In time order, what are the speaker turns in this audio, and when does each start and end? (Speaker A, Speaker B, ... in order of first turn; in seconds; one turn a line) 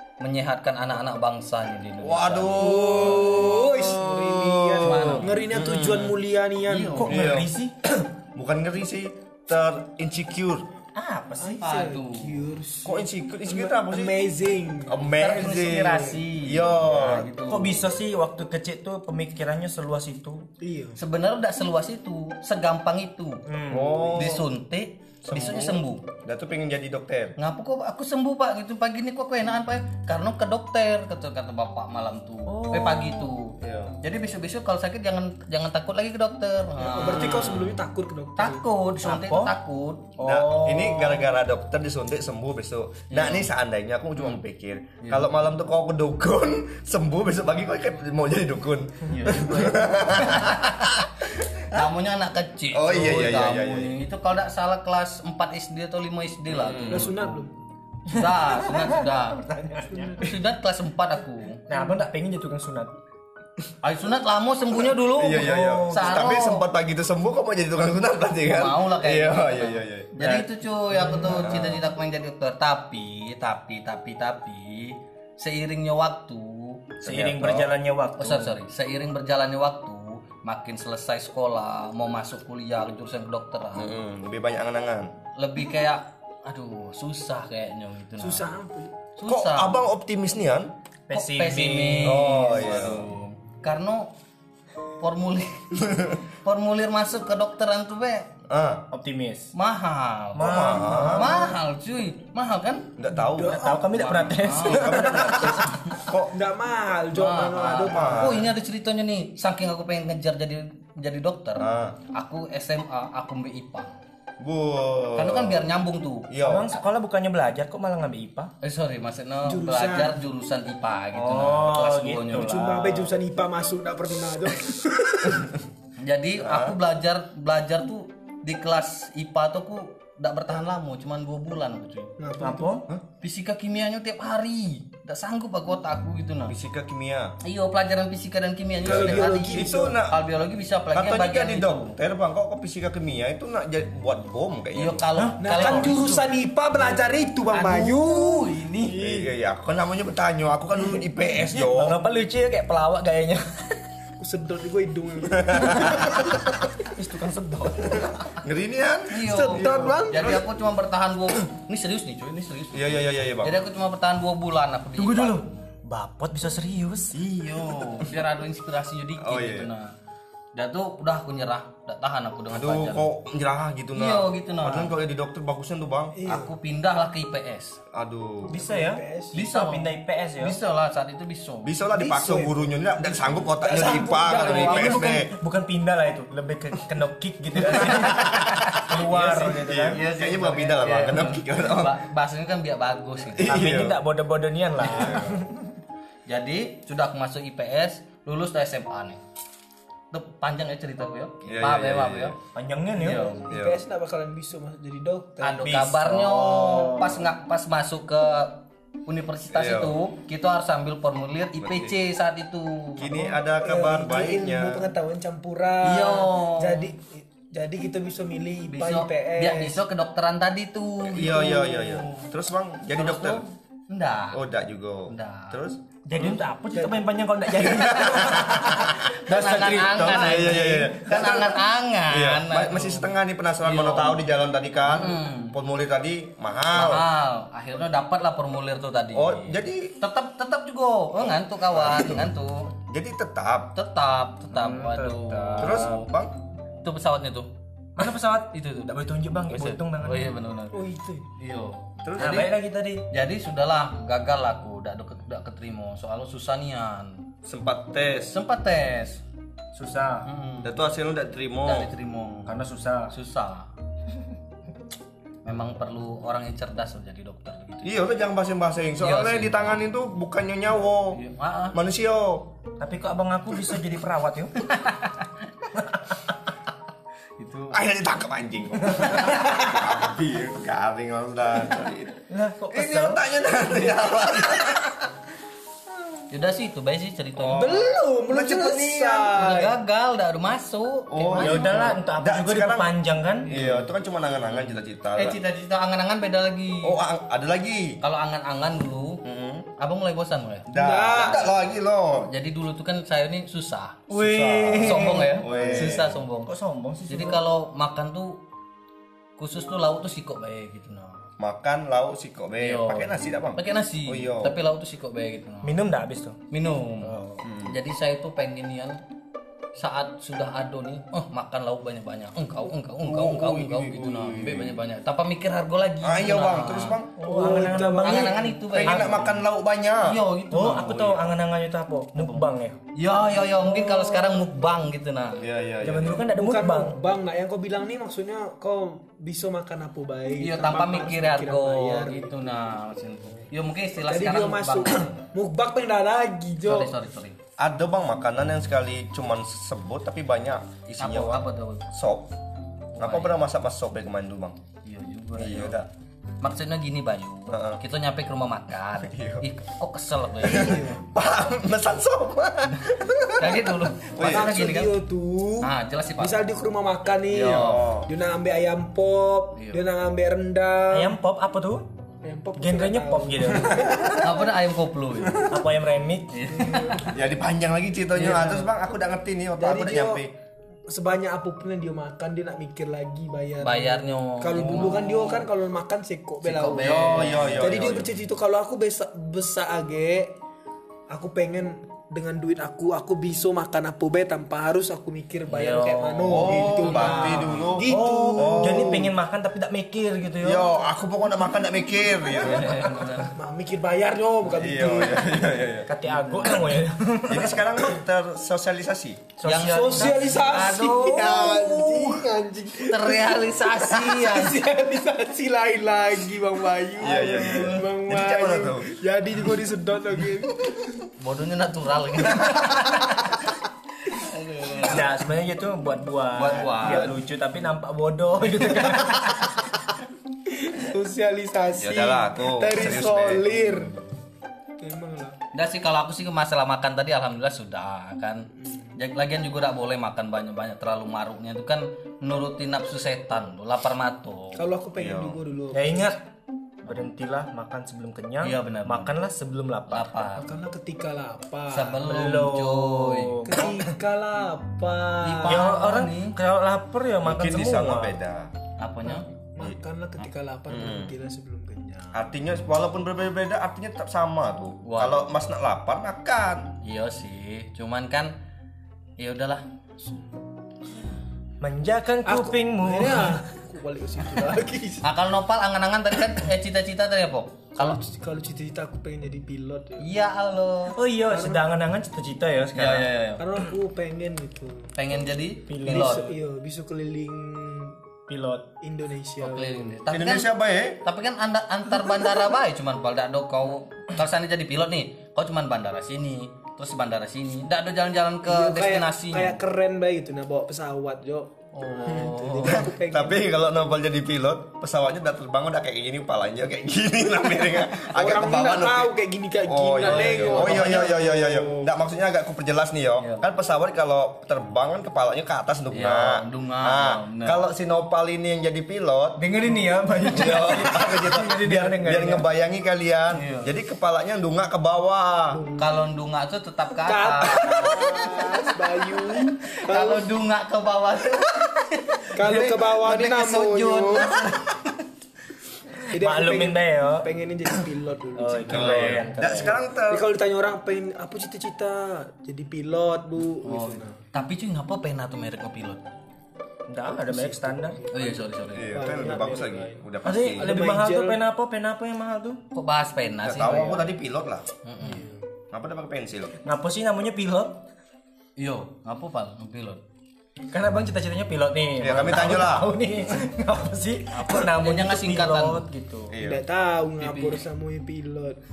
Speaker A: 0.2-3.5
Speaker B: 2.0-6.2
Speaker C: 2.5-7.1
Speaker A: 4.8-5.5
Speaker A: 6.7-7.3
Speaker D: 7.0-7.7
Speaker B: 7.0-10.7
Speaker D: 10.9-11.6
Speaker C: 11.4-15.0
Speaker A: 11.6-12.4
Speaker B: 12.8-14.1
Speaker B: 14.9-17.3
Speaker A: 15.2-17.9
Speaker D: 17.5-20.4
Speaker C: 20.6-21.0
Speaker A: 21.0-23.4
Speaker D: 23.4-24.2
Speaker B: 23.7-24.4
Speaker A: 24.1-26.0
Speaker B: 25.2-27.3
Speaker A: 27.4-37.7
Speaker D: 32.5-33.4
Speaker B: 33.6-33.9
Speaker C: 36.8-38.6
Speaker B: 37.0-37.7
Speaker A: 38.4-40.1
Speaker D: 39.0-39.5
Speaker D: 40.2-41.3
Speaker B: 40.2-51.9
Speaker A: 43.1-43.5
Speaker A: 45.0-45.3
Speaker A: 49.1-50.9
Speaker A: 51.7-57.4
Speaker B: 52.7-53.9
Speaker B: 56.6-57.0
Speaker C: 56.9-57.5
Speaker A: 58.1-59.5
Speaker D: 58.1-60.3
Speaker C: 59.9-60.2
Speaker A: 60.1-61.6
Speaker D: 61.7-62.9
Speaker A: 63.8-66.7
Speaker B: 65.0-70.1
Speaker D: 65.2-66.3
Speaker A: 68.5-76.9
Speaker D: 70.2-71.5
Speaker B: 71.3-71.8
Speaker B: 77.0-77.7
Speaker D: 77.0-78.6
Speaker A: 78.2-84.0
Speaker B: 83.8-85.1
Speaker A: 85.3-88.4
Speaker C: 88.2-88.9
Speaker A: 89.2-89.8
Speaker B: 89.2-90.7
Speaker D: 91.1-92.5
Speaker A: 91.1-94.1
Speaker B: 92.0-93.1
Speaker A: 95.0-95.7
Speaker A: 96.4-98.3
Speaker B: 98.5-98.8
Speaker D: 98.9-99.5
Speaker A: 99.5-102.9
Speaker D: 100.3-101.5
Speaker B: 100.4-101.3
Speaker B: 103.0-103.6
Speaker C: 103.2-103.9
Speaker D: 103.5-105.8
Speaker A: 103.9-105.3
Speaker B: 104.6-106.3
Speaker C: 106.3-108.5
Speaker A: 107.1-113.9
Speaker B: 107.9-108.5
Speaker B: 111.6-112.0
Speaker B: 114.4-115.7
Speaker A: 115.2-116.3
Speaker B: 116.3-116.7
Speaker D: 116.4-118.5
Speaker A: 118.6-122.5
Speaker C: 119.4-120.2
Speaker D: 121.1-123.1
Speaker C: 122.3-125.5
Speaker A: 126.0-132.1
Speaker B: 126.4-126.8
Speaker C: 132.2-132.7
Speaker D: 132.4-132.8
Speaker A: 133.2-136.6
Speaker B: 136.5-137.3
Speaker A: 137.4-141.9
Speaker C: 138.8-140.0
Speaker B: 138.8-140.2
Speaker B: 140.9-145.1
Speaker A: 144.7-146.2
Speaker D: 145.2-146.2
Speaker C: 145.4-149.3
Speaker A: 147.5-149.0
Speaker B: 149.0-152.0
Speaker D: 151.5-153.8
Speaker C: 154.2-156.3
Speaker B: 155.3-156.2
Speaker D: 155.7-156.1
Speaker D: 156.8-158.2
Speaker B: 158.4-160.4
Speaker A: 159.1-165.5
Speaker C: 159.2-160.4
Speaker B: 162.7-163.6
Speaker D: 165.0-167.2
Speaker A: 167.2-169.9
Speaker B: 167.3-168.1
Speaker B: 169.2-169.7
Speaker A: 170.5-173.1
Speaker B: 172.5-176.2
Speaker A: 173.9-174.9
Speaker C: 176.1-176.5
Speaker A: 176.2-177.8
Speaker B: 177.9-178.5
Speaker C: 178.4-179.3
Speaker D: 178.5-180.6
Speaker A: 179.3-181.7
Speaker B: 181.6-185.3
Speaker C: 181.9-185.1
Speaker A: 184.3-185.1
Speaker D: 184.7-190.0
Speaker B: 187.7-192.0
Speaker A: 189.1-193.7
Speaker B: 193.3-194.0
Speaker D: 193.4-195.6
Speaker B: 194.9-195.4
Speaker A: 196.3-199.2
Speaker A: 200.1-202.3
Speaker B: 201.5-202.3
Speaker D: 202.5-203.3
Speaker A: 203.0-203.5
Speaker C: 203.1-205.7
Speaker B: 203.5-203.8
Speaker A: 205.4-213.3
Speaker D: 205.6-207.3
Speaker B: 209.5-209.9
Speaker B: 211.6-211.9
Speaker B: 213.0-214.9
Speaker C: 213.2-219.8
Speaker A: 215.8-216.9
Speaker A: 218.7-222.0
Speaker B: 221.0-223.4
Speaker A: 222.9-224.4
Speaker B: 224.3-225.8
Speaker A: 225.1-225.6
Speaker D: 226.0-230.9
Speaker C: 226.7-227.0
Speaker B: 227.6-237.1
Speaker A: 228.9-233.1
Speaker A: 233.6-234.3
Speaker A: 234.8-235.6
Speaker A: 236.7-242.7
Speaker B: 239.1-239.9
Speaker B: 241.2-242.3
Speaker B: 242.8-243.7
Speaker A: 243.7-246.1
Speaker D: 244.5-246.0
Speaker B: 245.6-246.3
Speaker A: 246.8-247.5
Speaker D: 248.0-250.4
Speaker A: 248.5-248.9
Speaker A: 249.5-250.8
Speaker C: 250.7-251.3
Speaker A: 251.4-252.5
Speaker B: 252.0-252.5
Speaker D: 252.2-253.0
Speaker A: 253.1-257.2
Speaker B: 257.4-258.3
Speaker A: 258.3-259.2
Speaker D: 259.7-260.3
Speaker A: 260.2-260.7
Speaker B: 260.6-261.9
Speaker A: 261.6-263.7
Speaker D: 262.4-263.1
Speaker A: 265.4-267.9
Speaker B: 267.8-271.2
Speaker A: 269.0-269.8
Speaker A: 271.1-271.8
Speaker B: 271.7-272.5
Speaker D: 272.8-274.7
Speaker A: 274.6-275.5
Speaker D: 275.7-276.1
Speaker A: 277.4-277.8
Speaker B: 277.7-285.1
Speaker A: 279.0-279.8
Speaker D: 282.3-283.2
Speaker A: 286.3-287.9
Speaker B: 287.4-289.4
Speaker C: 287.4-289.8
Speaker A: 289.3-292.0
Speaker B: 291.1-292.9
Speaker D: 291.3-293.5
Speaker A: 293.4-293.9
Speaker B: 293.4-295.4
Speaker A: 295.1-297.0
Speaker B: 296.8-298.0
Speaker A: 298.0-299.2
Speaker B: 299.2-299.7
Speaker A: 299.8-300.7
Speaker B: 300.7-302.3
Speaker C: 300.7-301.5
Speaker A: 302.3-304.1
Speaker D: 304.1-307.4
Speaker B: 304.2-306.2
Speaker A: 304.7-306.5
Speaker A: 307.1-308.4
Speaker A: 309.4-311.2
Speaker B: 311.4-314.6
Speaker A: 312.6-315.8
Speaker D: 315.6-316.4
Speaker A: 316.5-319.0
Speaker D: 317.0-317.4
Speaker B: 317.4-317.8
Speaker A: 319.8-327.0
Speaker B: 323.0-324.8
Speaker B: 326.0-327.1
Speaker D: 327.2-329.4
Speaker C: 327.2-328.5
Speaker A: 328.0-329.4
Speaker B: 328.7-330.2
Speaker A: 330.0-331.2
Speaker D: 330.5-332.8
Speaker A: 332.9-335.4
Speaker D: 333.4-334.4
Speaker B: 335.4-336.2
Speaker D: 335.8-337.0
Speaker C: 336.3-342.4
Speaker A: 340.4-345.1
Speaker C: 344.1-346.9
Speaker A: 346.6-347.4
Speaker B: 347.6-352.3
Speaker A: 351.0-351.9
Speaker A: 352.9-353.4
Speaker B: 353.0-354.6
Speaker A: 354.8-355.8
Speaker B: 355.4-355.9
Speaker A: 356.4-360.9
Speaker B: 357.5-357.8
Speaker B: 359.0-359.4
Speaker C: 360.4-361.0
Speaker B: 360.4-364.7
Speaker A: 363.4-365.0
Speaker C: 364.2-371.1
Speaker A: 365.6-366.4
Speaker A: 367.3-367.9
Speaker B: 367.4-368.1
Speaker A: 369.6-369.8
Speaker D: 370.9-371.8
Speaker C: 372.2-374.3
Speaker D: 372.6-374.0
Speaker B: 373.9-374.2
Speaker A: 374.1-375.5
Speaker D: 375.4-376.4
Speaker A: 376.3-377.1
Speaker C: 376.5-377.2
Speaker B: 377.1-380.3
Speaker C: 378.2-378.6
Speaker C: 379.6-380.2
Speaker C: 380.9-390.3
Speaker A: 383.6-385.5
Speaker A: 386.4-387.8
Speaker B: 386.8-388.1
Speaker C: 391.1-399.1
Speaker A: 395.5-397.7
Speaker B: 396.2-399.1
Speaker D: 397.9-400.7
Speaker B: 400.4-403.0
Speaker D: 402.4-403.2
Speaker A: 402.4-403.3
Speaker C: 403.3-405.6
Speaker B: 404.5-405.9
Speaker D: 405.9-407.7
Speaker B: 407.3-409.3
Speaker D: 409.4-410.5
Speaker A: 409.4-412.3
Speaker C: 409.5-421.1
Speaker A: 412.8-414.6
Speaker B: 417.0-418.9
Speaker A: 417.0-417.8
Speaker A: 421.2-423.3
Speaker A: 424.1-425.0
Speaker D: 424.8-429.6
Speaker A: 426.3-427.1
Speaker C: 430.5-434.0
Speaker B: 431.8-433.6
Speaker C: 434.8-435.4
Speaker A: 435.5-444.6
Speaker C: 438.6-438.9
Speaker C: 444.6-446.1
Speaker B: 444.9-445.4
Speaker D: 445.7-446.2
Speaker D: 446.8-450.1
Speaker A: 448.4-449.1
Speaker A: 449.9-450.5
Speaker C: 450.4-452.1
Speaker A: 451.7-453.4
Speaker D: 452.0-453.6
Speaker C: 453.4-455.6
Speaker A: 455.2-456.4
Speaker D: 455.4-458.1
Speaker B: 457.2-458.5
Speaker A: 458.8-459.3
Speaker C: 459.1-462.3
Speaker B: 460.7-461.1
Speaker B: 462.1-466.7
Speaker A: 464.8-465.2
Speaker A: 466.8-468.4
Speaker A: 469.2-469.6
Speaker D: 471.6-473.4
Speaker C: 472.2-475.1
Speaker A: 475.0-478.0
Speaker C: 477.8-480.1
Speaker A: 480.0-481.0
Speaker D: 480.9-483.1
Speaker C: 481.3-481.6
Speaker A: 482.7-483.4
Speaker C: 483.4-484.9
Speaker A: 484.9-486.3
Speaker D: 485.7-486.3
Speaker C: 485.8-487.9
Speaker D: 488.3-488.7
Speaker C: 488.8-489.9
Speaker A: 489.4-499.6
Speaker B: 490.1-491.0
Speaker C: 498.4-503.4
Speaker A: 501.7-502.9
Speaker B: 502.6-509.1
Speaker C: 508.0-511.9
Speaker B: 509.6-519.4
Speaker A: 510.0-511.2
Speaker A: 513.2-513.4
Speaker A: 515.9-517.6
Speaker D: 519.4-522.4
Speaker B: 520.3-525.6
Speaker A: 523.3-523.7
Speaker C: 525.5-526.0
Speaker A: 525.8-528.5
Speaker C: 527.0-530.3
Speaker A: 529.7-535.0
Speaker C: 532.3-534.5
Speaker C: 536.1-544.2
Speaker D: 536.1-537.3
Speaker D: 538.4-539.8
Speaker B: 538.7-540.2
Speaker A: 538.7-539.2
Speaker A: 543.6-546.0
Speaker D: 546.9-548.0
Speaker C: 547.1-551.4
Speaker A: 548.1-549.1
Speaker B: 548.7-550.7
Speaker D: 550.2-552.6
Speaker A: 552.7-554.1
Speaker B: 553.4-554.6
Speaker D: 553.6-554.0
Speaker A: 554.8-555.3
Speaker C: 555.0-555.4
Speaker B: 555.7-556.5
Speaker D: 556.6-557.8
Speaker A: 558.6-560.0
Speaker D: 560.7-566.4
Speaker B: 562.0-562.9
Speaker A: 564.3-565.8
Speaker B: 566.3-566.6
Speaker C: 566.4-568.6
Speaker A: 567.2-567.6